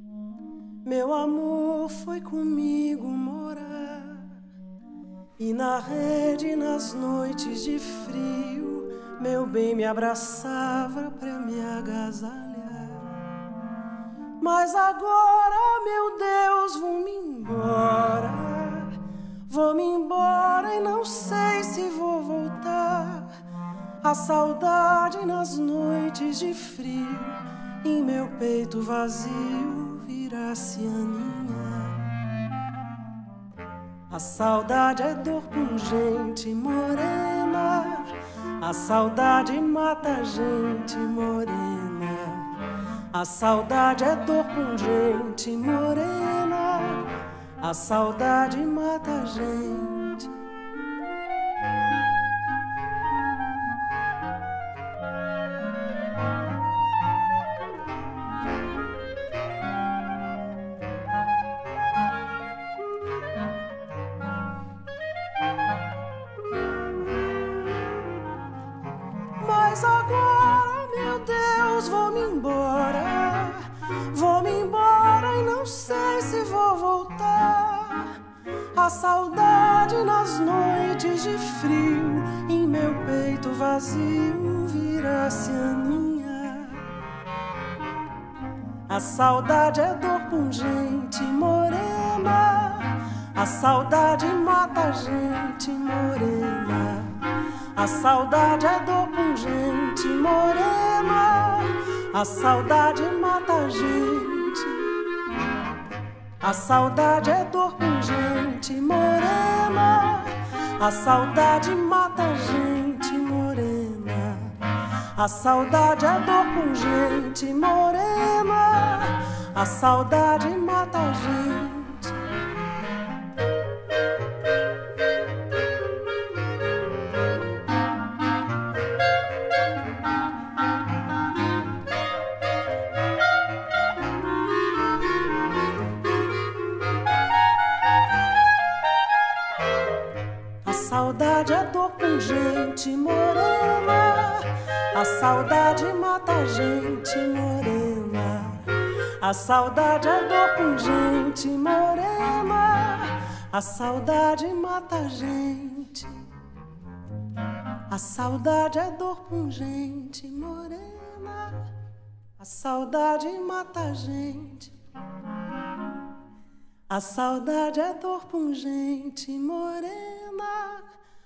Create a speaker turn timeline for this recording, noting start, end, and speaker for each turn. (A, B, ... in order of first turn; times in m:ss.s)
0:00.8-0:04.4 A
0:05.4-0:13.3 A
0:14.4-0:23.4 A
0:24.0-0:32.1 A
0:34.1-0:50.4 A
1:09.4-1:18.2 A
1:18.7-1:27.0 A
1:28.9-1:45.0 A
1:46.4-2:02.4 A
2:20.6-2:36.4 A
2:37.9-2:41.8 A
2:42.4-2:44.8 A
2:46.9-2:51.0 A